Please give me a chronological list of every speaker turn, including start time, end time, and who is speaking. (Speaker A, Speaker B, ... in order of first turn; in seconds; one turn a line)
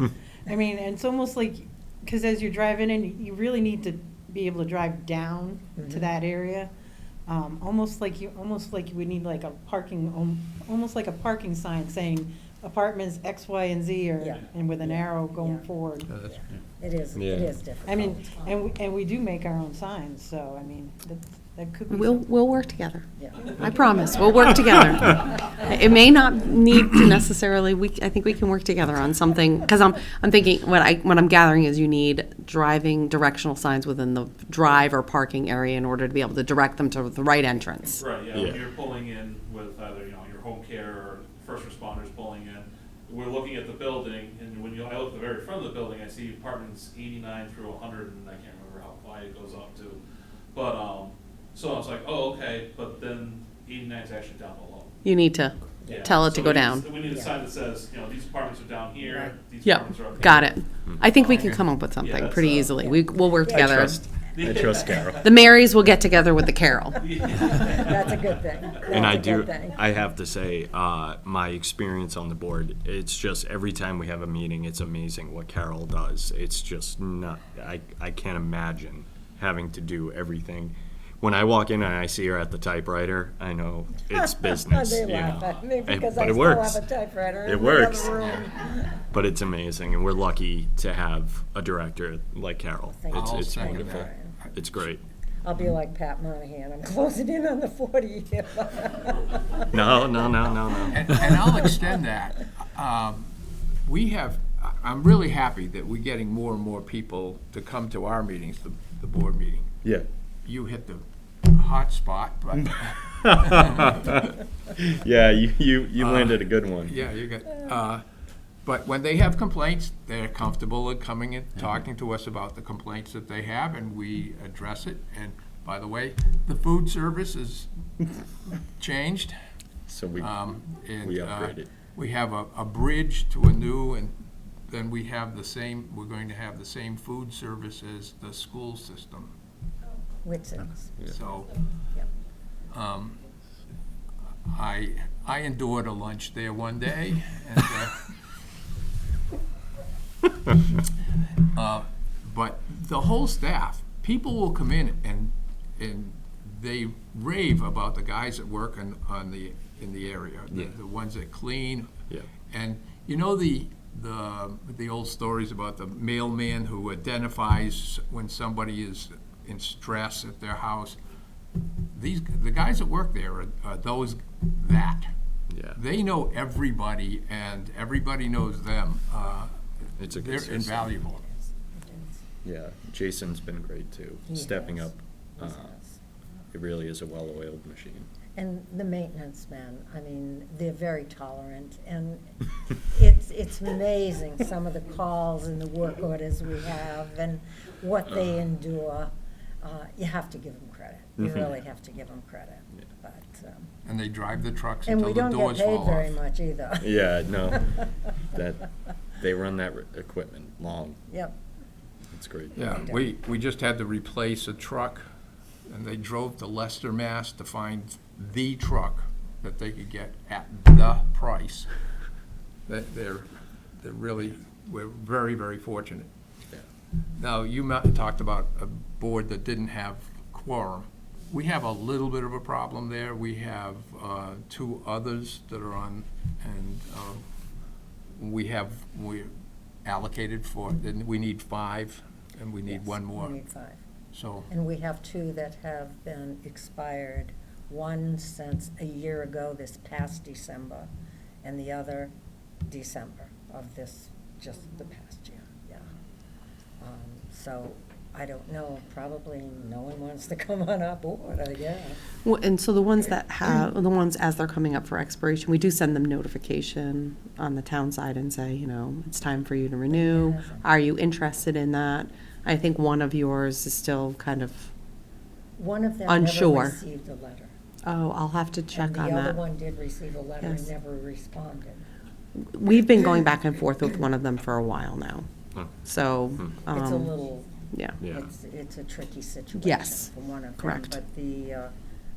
Speaker A: 0.5-6.7
Speaker B: 5.8-6.1
Speaker A: 7.2-16.1
Speaker B: 14.2-15.7
Speaker C: 16.1-16.4
Speaker B: 16.2-18.6
Speaker D: 17.1-17.6
Speaker A: 17.9-22.3
Speaker E: 21.9-38.0
Speaker B: 23.2-23.7
Speaker A: 23.4-24.1
Speaker F: 23.9-24.8
Speaker D: 24.8-25.1
Speaker F: 38.0-50.0
Speaker D: 38.3-38.6
Speaker F: 50.5-55.0
Speaker E: 55.0-56.9
Speaker B: 55.8-56.1
Speaker F: 55.8-60.6
Speaker B: 56.9-57.4
Speaker B: 59.0-59.4
Speaker E: 59.6-64.0
Speaker F: 61.1-63.0
Speaker C: 61.3-61.6
Speaker B: 63.4-63.7
Speaker D: 63.5-65.3
Speaker F: 64.3-65.6
Speaker E: 65.2-67.1
Speaker F: 66.9-68.3
Speaker B: 67.3-69.8
Speaker D: 68.8-86.8
Speaker B: 84.1-89.0
Speaker D: 87.4-88.3
Speaker D: 89.1-95.0
Speaker B: 92.9-94.4
Speaker C: 93.1-94.2
Speaker B: 95.4-99.9
Speaker D: 99.7-101.3
Speaker C: 100.9-103.3
Speaker B: 101.2-102.0
Speaker C: 103.8-109.8
Speaker C: 110.4-114.0
Speaker D: 112.8-114.2
Speaker D: 114.8-117.0
Speaker C: 116.0-118.0
Speaker C: 118.6-127.7
Speaker C: 128.8-129.4
Speaker D: 129.9-130.3
Speaker C: 130.2-134.2
Speaker D: 131.0-131.7
Speaker C: 134.7-139.3
Speaker B: 140.2-141.0
Speaker C: 141.1-141.5
Speaker C: 142.7-143.2
Speaker C: 144.5-148.1
Speaker C: 151.5-161.9
Speaker C: 162.5-171.0
Speaker C: 171.9-175.1
Speaker D: 175.5-175.8
Speaker C: 175.7-179.5
Speaker D: 180.0-180.9
Speaker C: 180.1-181.2
Speaker B: 181.1-182.2
Speaker D: 182.4-185.8
Speaker B: 184.3-186.0
Speaker D: 186.5-188.1
Speaker B: 188.3-203.7
Speaker D: 201.2-201.5
Speaker C: 203.8-206.2
Speaker B: 204.8-207.9
Speaker D: 206.8-207.7
Speaker D: 208.3-208.7
Speaker D: 209.2-211.0
Speaker B: 211.1-211.4
Speaker D: 212.1-212.7
Speaker C: 212.5-215.1
Speaker B: 212.7-213.1
Speaker C: 215.7-221.7
Speaker C: 222.7-226.1
Speaker C: 227.2-237.2
Speaker C: 238.2-239.3
Speaker C: 239.8-243.4
Speaker B: 242.7-243.8
Speaker C: 244.1-244.5
Speaker B: 244.5-250.9
Speaker B: 251.4-252.1
Speaker B: 252.7-255.8
Speaker B: 256.8-262.0
Speaker E: 262.2-274.7
Speaker B: 269.9-270.7
Speaker B: 275.6-277.5
Speaker E: 276.1-276.8
Speaker E: 277.9-279.4
Speaker B: 278.7-281.8
Speaker E: 280.4-280.7
Speaker E: 282.4-285.3
Speaker D: 285.5-285.8
Speaker E: 285.8-287.1
Speaker D: 286.4-286.7
Speaker B: 286.7-287.5
Speaker D: 288.0-288.3
Speaker B: 288.0-291.7
Speaker E: 289.5-291.0